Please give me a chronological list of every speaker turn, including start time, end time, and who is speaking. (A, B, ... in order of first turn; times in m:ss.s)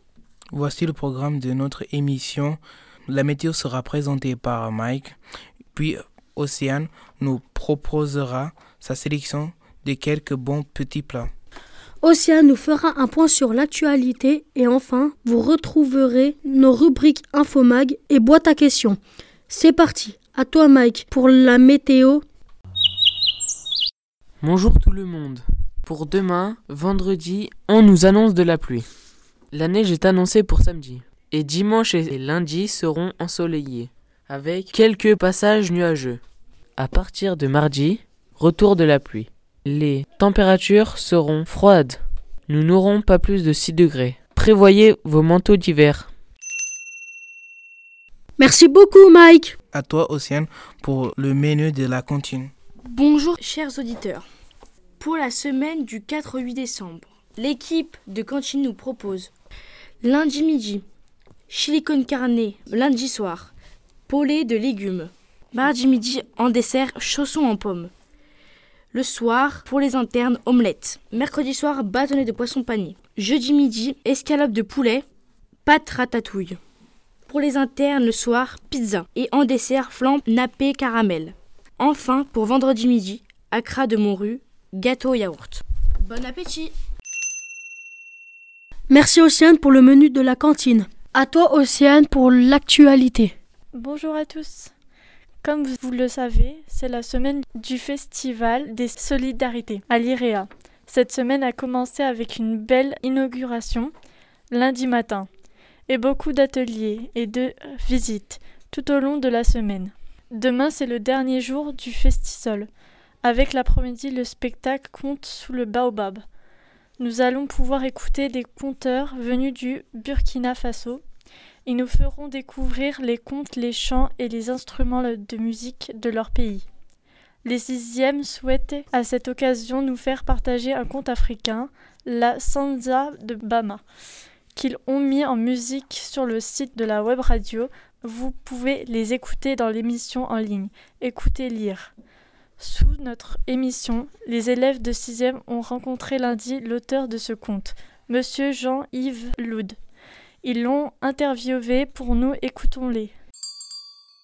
0:00.5-0:05.2 A
0:05.7-0:11.3 A
0:12.0-0:22.2 B
0:24.4-0:28.9 C
0:29.5-0:36.2 C
0:36.8-0:46.1 C
0:48.4-0:49.5 B
0:49.7-0:52.5 A
0:52.8-0:54.2 D
0:55.0-0:59.3 D
1:00.0-1:00.8 D
1:01.5-1:03.5 D
1:04.1-1:07.9 D
1:08.9-1:15.0 D
1:15.6-1:16.6 D
1:17.3-1:26.7 D
1:28.9-1:33.3 B
1:33.7-1:34.7 E
1:35.4-1:43.9 E
1:44.5-1:45.3 E
1:45.9-1:52.7 E
1:53.2-1:56.2 E
1:57.0-2:01.0 E
2:01.6-2:06.6 E
2:07.4-2:13.8 E
2:14.5-2:21.9 E
2:22.6-2:29.8 E
2:30.4-2:33.1 E